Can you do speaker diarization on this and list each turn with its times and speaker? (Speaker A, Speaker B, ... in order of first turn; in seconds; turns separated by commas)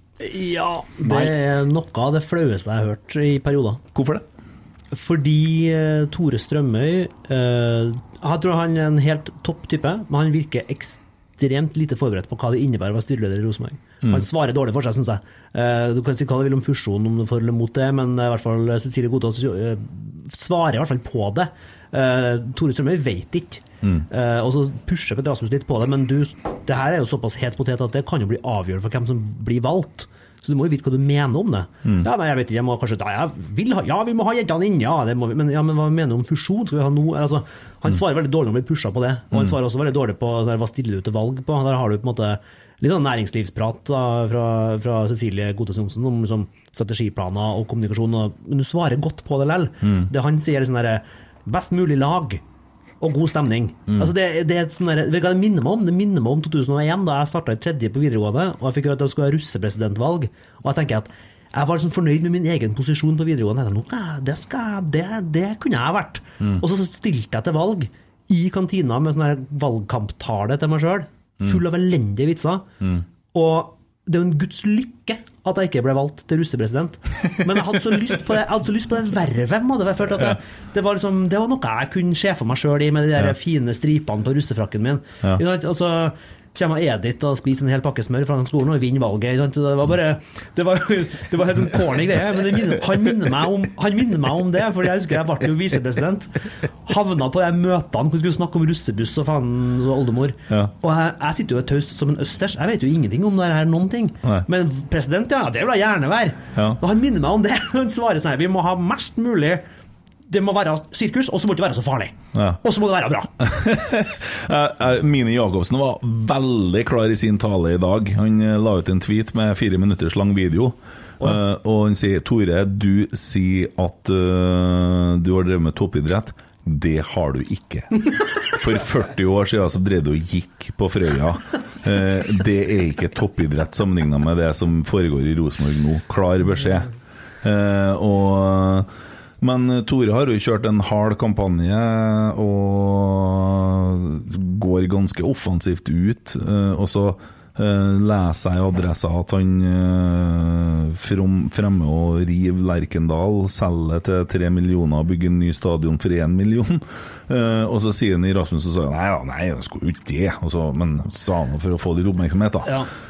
Speaker A: 0.2-3.8, Speaker B: 3.9-4.2, Speaker A: 4.9-52.4, Speaker B: 39.3-39.6, Speaker B: 49.8-50.1, Speaker A: 53.0-72.7, Speaker A: 73.3-96.3, Speaker A: 96.8-109.6, Speaker B: 106.5-106.8, Speaker A: 110.3-113.3, Speaker B: 112.3-112.6, Speaker B: 113.4-136.9, Speaker B: 137.4-138.9, Speaker B: 139.4-162.8